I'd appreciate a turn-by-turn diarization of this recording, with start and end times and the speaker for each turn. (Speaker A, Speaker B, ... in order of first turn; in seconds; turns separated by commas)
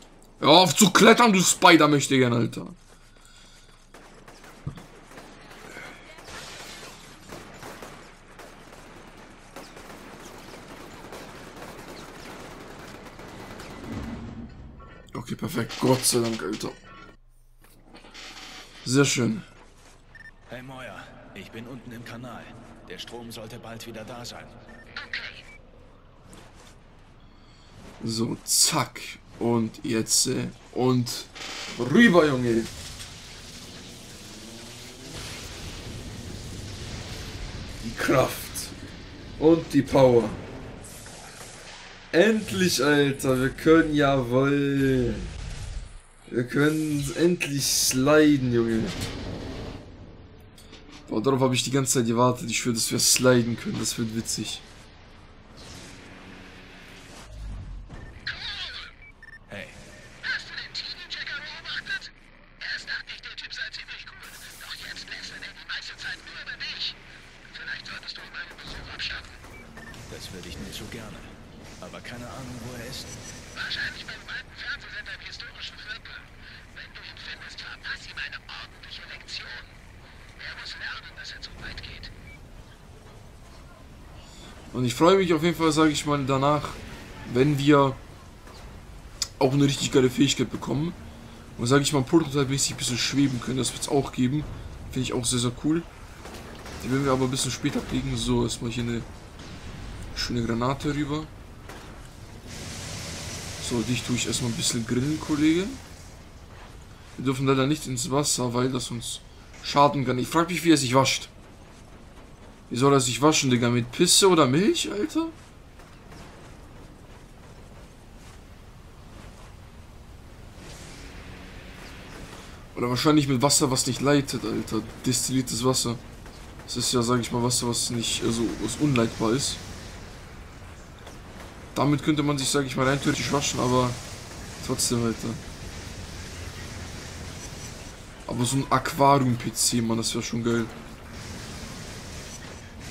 Speaker A: 0.4-2.8, Speaker A: 15.1-16.8, Speaker A: 18.8-19.5, Speaker B: 20.5-24.6, Speaker C: 25.0-25.4, Speaker A: 28.0-32.7, Speaker A: 37.8-38.8, Speaker A: 39.4-40.4, Speaker A: 42.1-45.3, Speaker A: 46.3-49.0, Speaker A: 51.1-54.6, Speaker C: 58.2-58.9, Speaker B: 59.5-59.8, Speaker C: 60.2-67.0, Speaker C: 67.5-69.4, Speaker B: 70.1-73.1, Speaker C: 73.5-79.8, Speaker C: 80.4-82.1, Speaker A: 84.7-88.0, Speaker A: 89.4-91.0, Speaker A: 91.6-95.9, Speaker A: 96.8-99.1, Speaker A: 100.1-101.3, Speaker A: 103.6-105.8, Speaker A: 107.2-111.3, Speaker A: 112.7-115.3, Speaker A: 122.8-126.0, Speaker A: 126.7-129.6, Speaker A: 131.7-134.0, Speaker A: 134.6-135.4, Speaker A: 138.3-140.7